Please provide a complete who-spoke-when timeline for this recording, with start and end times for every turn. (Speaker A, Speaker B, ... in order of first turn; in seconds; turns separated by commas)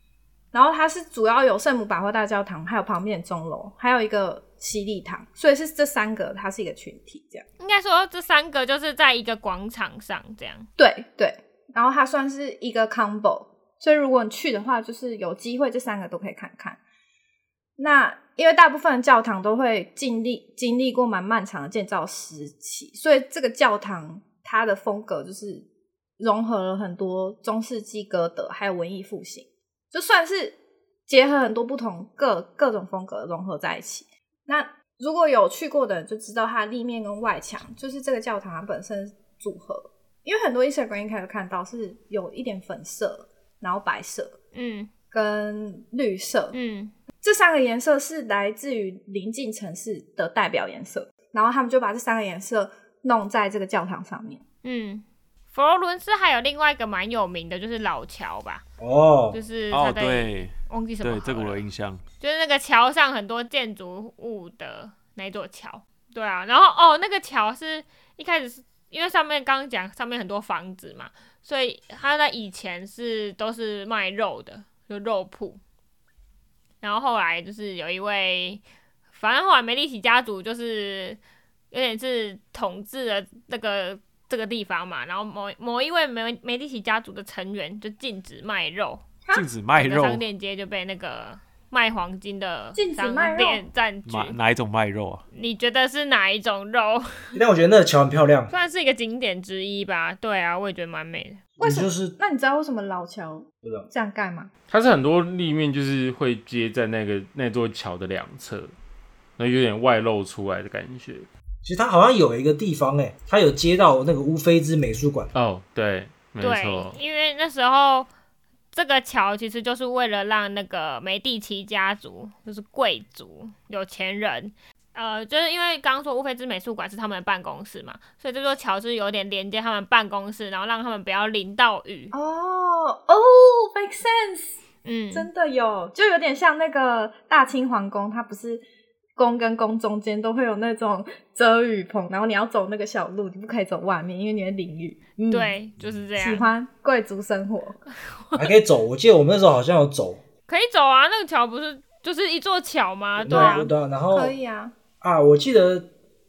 Speaker A: 0.5-7.4, Speaker B: 7.6-10.7, Speaker A: 10.8-16.8, Speaker A: 17.8-25.6, Speaker A: 26.2-44.3, Speaker B: 44.5-44.9, Speaker A: 45.1-46.5, Speaker B: 46.5-46.9, Speaker A: 47.2-54.4, Speaker B: 54.6-58.6, Speaker C: 58.8-59.4, Speaker B: 59.3-61.6, Speaker D: 59.7-62.0, Speaker B: 62.2-75.6, Speaker B: 76.8-78.6, Speaker B: 79.2-81.2, Speaker B: 81.7-89.0, Speaker D: 89.3-90.2, Speaker B: 89.7-94.3, Speaker A: 92.8-93.6, Speaker D: 94.0-95.2, Speaker B: 95.3-97.2, Speaker C: 97.3-98.5, Speaker B: 98.5-101.4, Speaker C: 101.6-102.2, Speaker A: 101.6-104.5, Speaker C: 103.6-103.9, Speaker E: 104.7-108.7, Speaker E: 109.4-111.3, Speaker C: 111.6-115.3, Speaker E: 115.3-117.0, Speaker B: 116.4-118.1, Speaker B: 118.7-132.1, Speaker A: 132.1-134.5, Speaker B: 134.8-135.3, Speaker A: 135.1-138.6, Speaker A: 139.2-145.5, Speaker B: 145.3-146.5, Speaker A: 146.2-147.8, Speaker C: 148.3-150.2, Speaker B: 150.5-153.7, Speaker C: 153.2-154.3, Speaker A: 153.3-154.8, Speaker C: 155.0-155.9